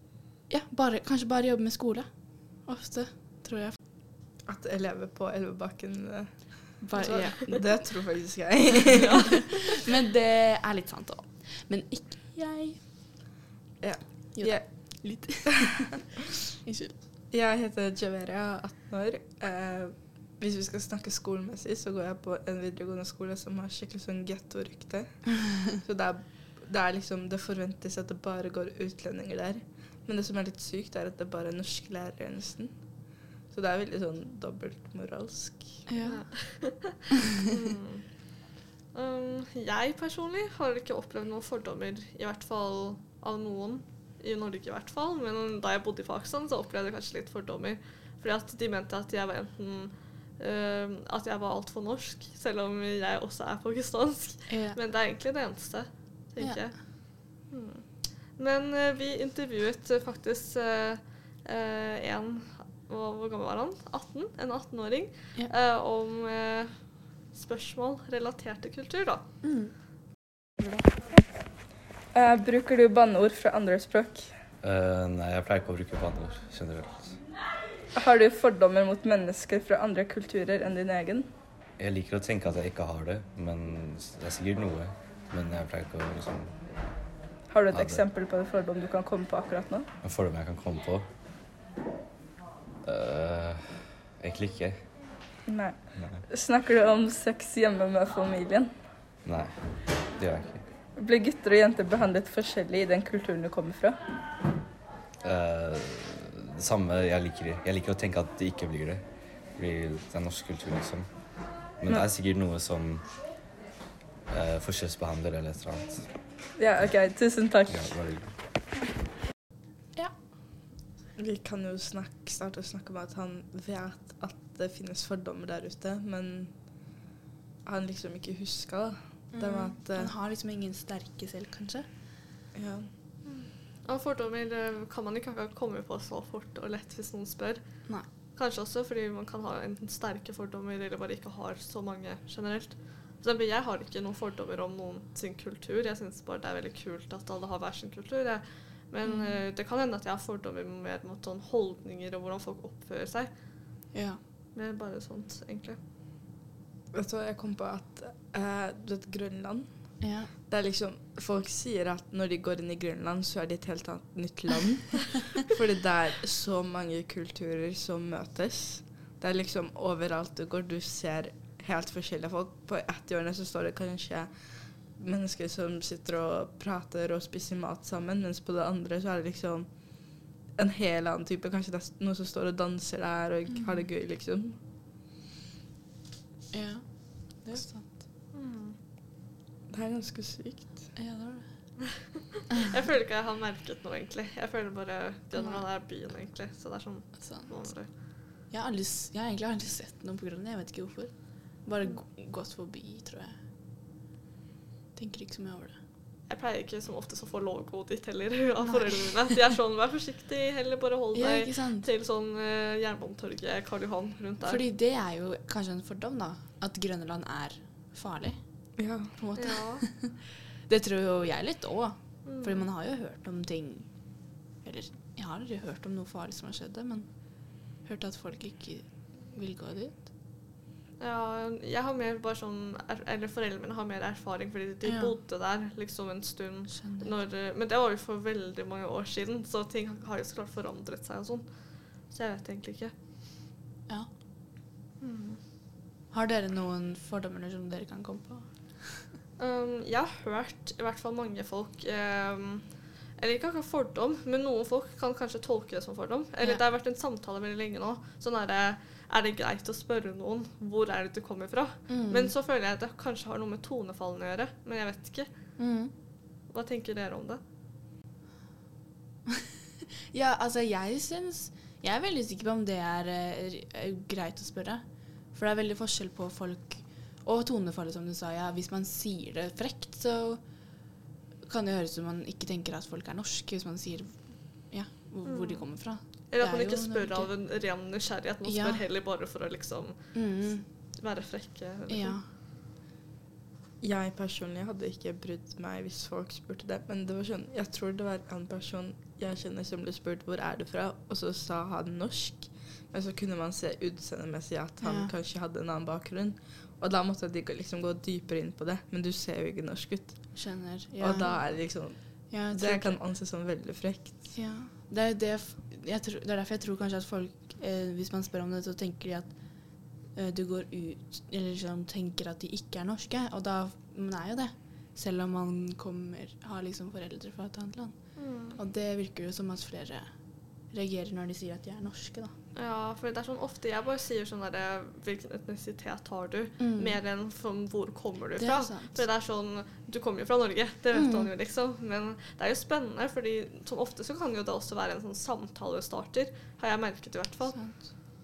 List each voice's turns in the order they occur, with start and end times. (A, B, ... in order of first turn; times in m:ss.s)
0:00.5-0:03.8 A
0:04.5-0:09.4 B
0:06.8-0:07.8 A
0:08.9-0:09.6 C
0:09.4-0:12.9 A
0:13.8-0:15.4 B
0:14.4-0:16.1 A
0:16.6-0:17.0 A
0:17.3-0:35.9 B
0:35.9-0:36.3 A
0:36.0-0:38.3 C
0:38.9-1:09.2 C
0:54.5-0:54.8 A
0:56.4-0:56.7 A
1:09.4-1:11.0 A
1:12.1-1:14.3 B
1:14.6-1:17.2 D
1:17.9-1:21.3 B
1:21.8-1:26.7 D
1:27.5-1:29.9 B
1:27.7-1:28.0 D
1:30.0-1:31.1 D
1:32.8-1:34.8 D
1:35.5-1:38.7 B
1:36.0-1:36.2 D
1:39.2-1:40.7 D
1:41.0-1:44.0 B
1:45.2-1:53.2 D
1:54.3-1:56.1 D
1:56.6-1:58.1 B
1:56.8-1:57.0 D
1:57.7-1:58.3 D
2:01.2-2:07.0 B
2:07.6-2:10.1 B
2:09.3-2:11.9 A
2:12.5-2:12.9 B
2:13.2-2:33.4 C
2:29.0-2:29.4 A
2:33.9-2:34.2 A
2:34.5-2:35.8 C
2:36.9-3:04.6 B
2:40.0-2:40.3 A
3:03.5-3:03.9 A
3:06.5-3:08.0 A
3:08.3-3:08.8 C
3:09.7-3:11.0 B
3:11.0-3:11.8 A
3:12.5-3:17.9 C
3:15.4-3:15.6 A
3:17.2-3:23.4 A
3:25.0-3:25.8 A
3:26.3-3:34.6 C
3:28.6-3:29.2 A
3:31.1-3:31.9 A
3:34.4-3:50.1 A
3:38.8-3:39.1 B
3:39.4-3:39.8 C
3:42.2-3:42.7 C
3:51.0-4:02.9 C
3:54.8-3:55.2 A
3:56.7-3:57.2 A
4:05.0-4:05.4 C
4:06.1-4:09.1 A
4:09.4-4:25.6 C
4:21.9-4:22.3 A
4:25.6-4:25.9 A
4:26.5-4:27.4 C
4:30.1-4:40.7 A
4:41.4-4:47.3 A
4:45.2-4:52.2 C
4:48.4-4:48.8 A
4:50.1-4:50.7 A
4:51.9-4:52.3 A
4:53.8-5:14.4 B
5:04.8-5:05.1 A
5:10.4-5:13.0 A
5:14.4-5:32.3 A
5:28.2-5:28.6 C
5:32.6-5:47.6 C
5:36.6-5:37.0 A
5:38.4-5:39.1 A
5:40.9-5:41.3 A
5:47.5-5:47.9 A